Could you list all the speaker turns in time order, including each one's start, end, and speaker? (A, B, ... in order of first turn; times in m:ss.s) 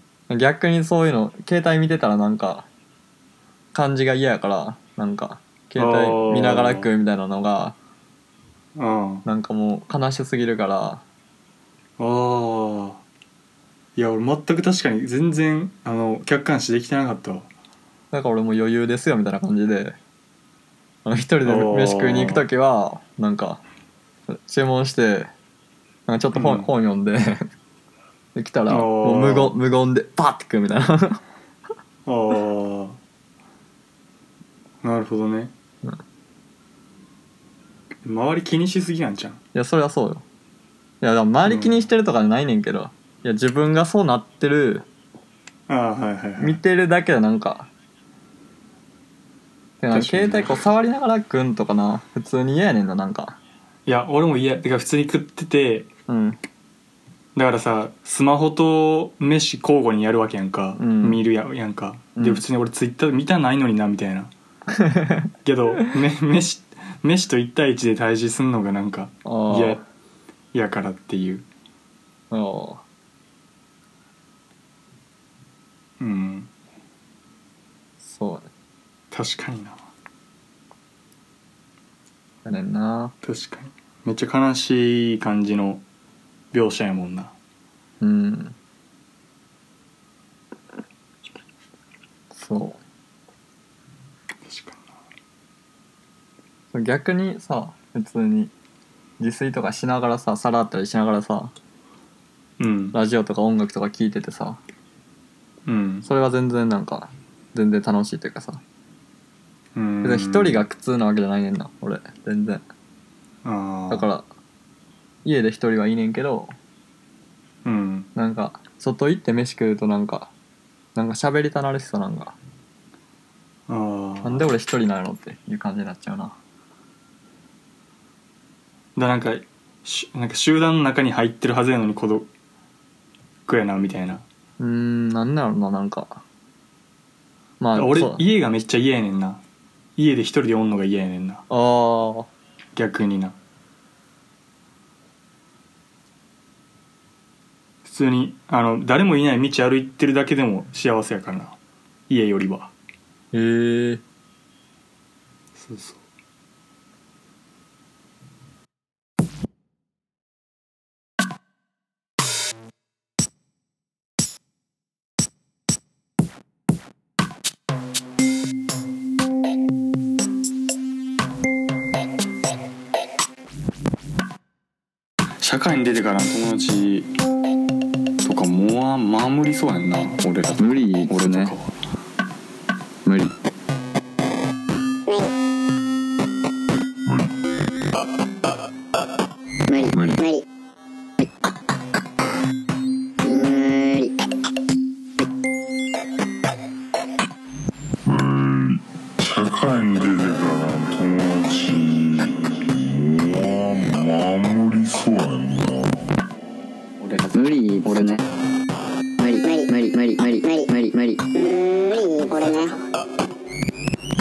0:00.3-0:02.7 A
0:03.7-0:07.8 A
0:05.8-0:06.9 B
0:08.8-0:09.2 B
0:09.2-0:11.0 A
0:12.0-0:13.0 B
0:14.0-0:17.5 B
0:18.1-0:20.0 A
0:21.0-0:23.6 A
0:21.4-0:22.4 B
0:24.3-0:25.3 A
0:26.1-0:27.5 A
0:26.3-0:26.7 B
0:28.4-0:31.2 A
0:28.7-0:29.6 B
0:32.1-0:33.0 B
0:34.8-0:35.5 B
0:38.0-0:39.4 B
0:39.5-0:40.2 A
0:41.0-0:44.9 A
0:41.5-0:41.8 B
0:45.7-0:46.6 B
0:46.4-0:47.7 A
0:49.8-0:53.4 A
0:49.9-0:50.6 B
0:53.9-0:55.9 B
0:56.1-0:56.4 A
0:57.4-1:04.3 B
1:00.8-1:01.2 A
1:02.2-1:02.4 A
1:04.7-1:05.3 A
1:05.4-1:09.8 B
1:09.2-1:09.8 A
1:10.5-1:11.5 B
1:12.3-1:12.8 A
1:16.0-1:16.5 B
1:18.0-1:18.5 A
1:19.1-1:19.9 B
1:22.4-1:23.2 A
1:23.2-1:25.8 B
1:26.5-1:27.3 B
1:28.0-1:28.6 A
1:32.3-1:32.8 A
1:34.4-1:35.0 B
1:36.7-1:38.5 A
1:39.2-1:41.5 A
1:42.6-1:43.0 B
1:42.9-1:44.6 A
1:45.7-1:46.1 B
1:46.0-1:48.6 A
1:49.8-1:50.7 B
1:50.0-1:52.6 A
1:53.4-1:54.1 B
1:53.9-1:54.2 A
1:55.2-1:56.6 A
1:57.6-1:58.1 B
1:58.2-2:00.3 A
2:01.0-2:02.4 A
2:03.7-2:04.5 B
2:04.2-2:06.4 A
2:09.0-2:12.3 B
2:13.5-2:14.2 B
2:14.6-2:16.2 A
2:17.6-2:18.2 A
2:17.8-2:19.4 B
2:20.0-2:21.4 B
2:21.5-2:22.3 A
2:22.8-2:23.4 B
2:27.8-2:31.6 B
2:32.1-2:32.7 B
2:33.3-2:34.0 A
2:35.6-2:36.0 B
2:55.4-2:57.1 B
2:58.2-3:01.8 B
3:00.6-3:01.6 A
3:03.0-3:03.3 A
3:09.7-3:10.4 C
3:09.9-3:10.2 D
3:13.2-3:14.1 C
3:18.1-3:26.0 D
3:27.0-3:27.3 E
3:27.3-3:28.2 A
3:27.8-3:28.1 E
3:29.2-3:31.1 E
3:29.2-3:31.2 A
3:31.4-3:32.7 C